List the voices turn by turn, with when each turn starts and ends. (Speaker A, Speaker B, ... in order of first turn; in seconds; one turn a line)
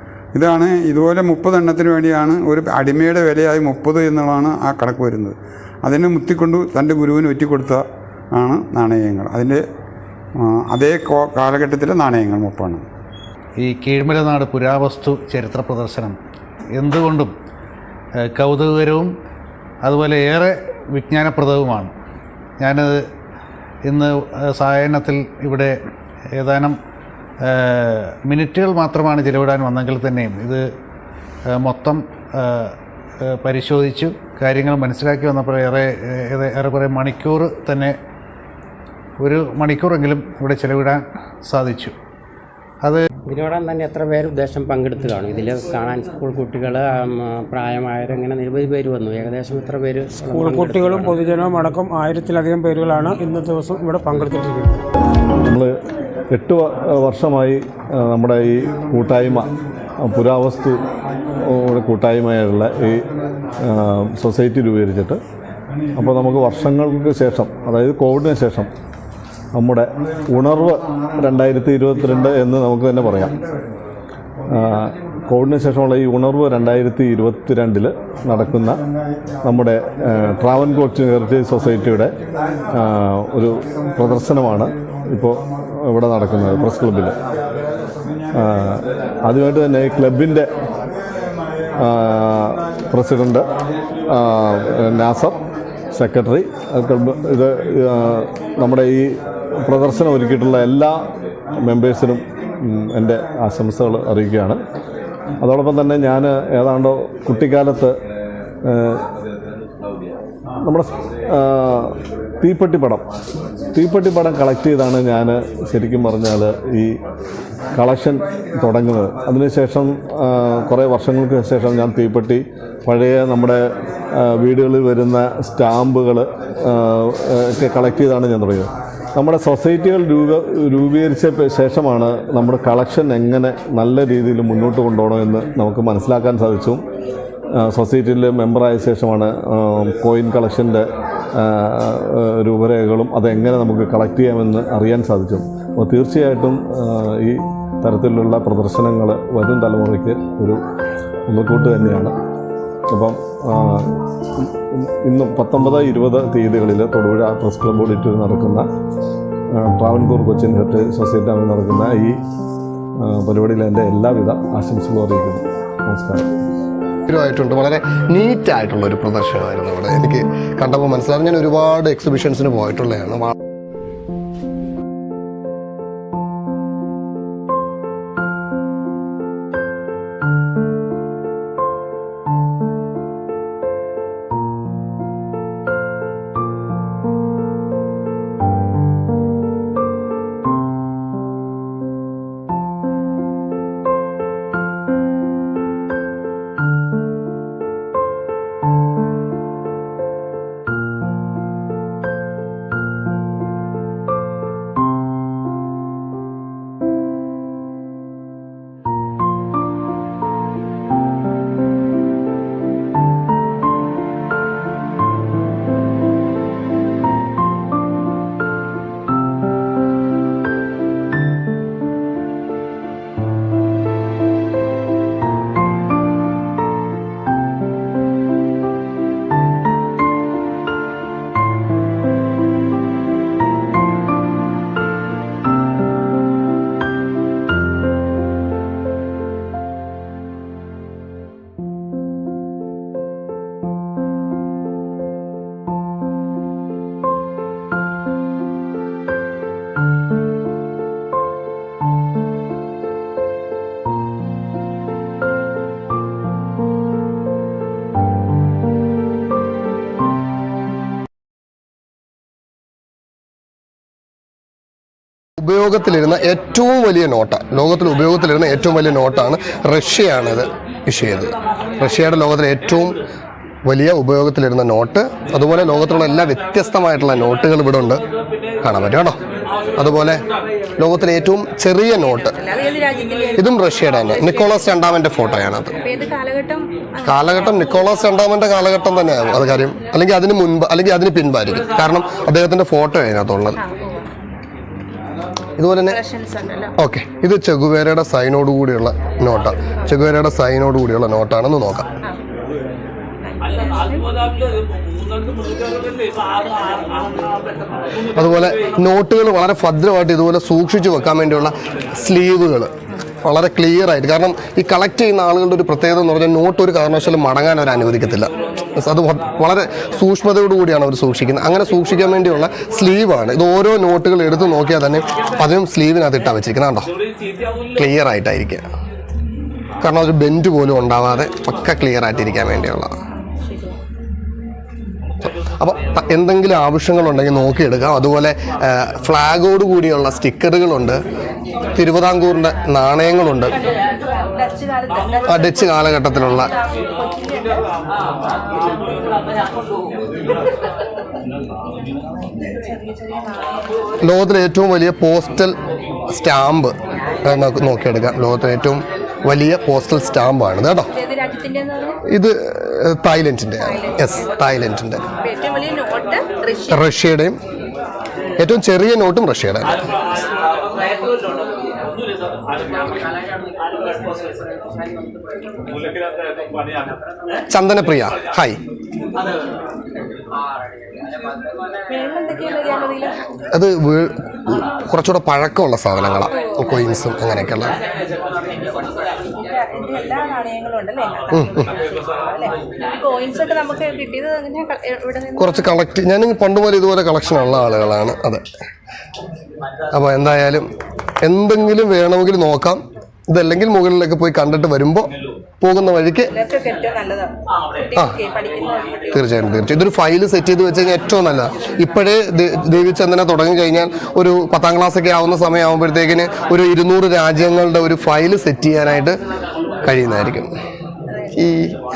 Speaker A: 0.3-9.6
Speaker A: 10.4-12.8
Speaker B: 13.6-16.2
Speaker B: 16.8-17.3
Speaker B: 18.2-19.1
Speaker B: 19.8-21.9
Speaker B: 22.6-23.0
Speaker B: 23.9-25.8
Speaker B: 26.4-26.8
Speaker B: 27.4-30.6
Speaker B: 31.6-38.0
Speaker B: 39.2-42.0
Speaker C: 43.3-51.2
Speaker D: 50.5-54.7
Speaker E: 50.6-51.1
Speaker F: 55.4-55.7
Speaker F: 56.3-60.8
Speaker F: 61.4-63.1
Speaker F: 63.6-65.2
Speaker F: 66.0-68.7
Speaker F: 69.5-73.4
Speaker F: 74.5-78.8
Speaker F: 79.4-82.2
Speaker F: 82.7-87.2
Speaker F: 88.3-90.5
Speaker F: 91.8-93.5
Speaker F: 94.1-95.4
Speaker F: 95.9-101.1
Speaker F: 101.6-104.6
Speaker F: 105.4-108.0
Speaker F: 108.7-109.0
Speaker F: 110.6-113.1
Speaker F: 113.7-117.0
Speaker F: 117.7-123.6
Speaker F: 124.1-136.8
Speaker F: 137.6-150.6
Speaker F: 151.3-152.1
Speaker F: 152.9-158.7
Speaker F: 159.5-162.2
Speaker F: 163.0-166.3
Speaker G: 167.1-173.3
Speaker G: 265.4-273.0
Speaker G: 273.6-278.0
Speaker G: 278.6-279.2
Speaker G: 279.8-280.2
Speaker G: 280.8-282.3
Speaker E: 282.3-284.7
Speaker G: 283.4-285.7
Speaker E: 285.8-287.6
Speaker G: 287.0-293.6
Speaker E: 293.6-294.1
Speaker G: 295.6-296.0
Speaker E: 295.9-296.7
Speaker G: 296.8-301.9
Speaker E: 303.2-304.4
Speaker G: 308.2-312.7
Speaker G: 313.2-326.9
Speaker G: 327.8-328.6
Speaker G: 329.8-332.9
Speaker E: 333.4-333.8
Speaker G: 335.6-341.0
Speaker G: 341.8-343.5
Speaker E: 344.3-347.6
Speaker G: 345.3-346.5
Speaker G: 354.0-355.6
Speaker G: 356.1-360.9
Speaker E: 360.9-362.0
Speaker G: 362.1-365.0
Speaker E: 363.6-364.4
Speaker E: 365.2-366.9
Speaker G: 366.7-367.4
Speaker G: 368.4-369.7
Speaker G: 377.5-378.6
Speaker E: 381.9-383.2
Speaker G: 383.5-384.1
Speaker G: 384.7-387.7
Speaker E: 386.3-386.9
Speaker E: 389.4-395.7
Speaker G: 395.4-398.4
Speaker G: 399.9-400.7
Speaker G: 401.2-405.1
Speaker G: 405.6-406.3
Speaker E: 406.3-407.3
Speaker E: 407.9-409.4
Speaker G: 409.1-419.2
Speaker G: 419.9-420.5
Speaker E: 421.1-421.5
Speaker G: 421.4-421.7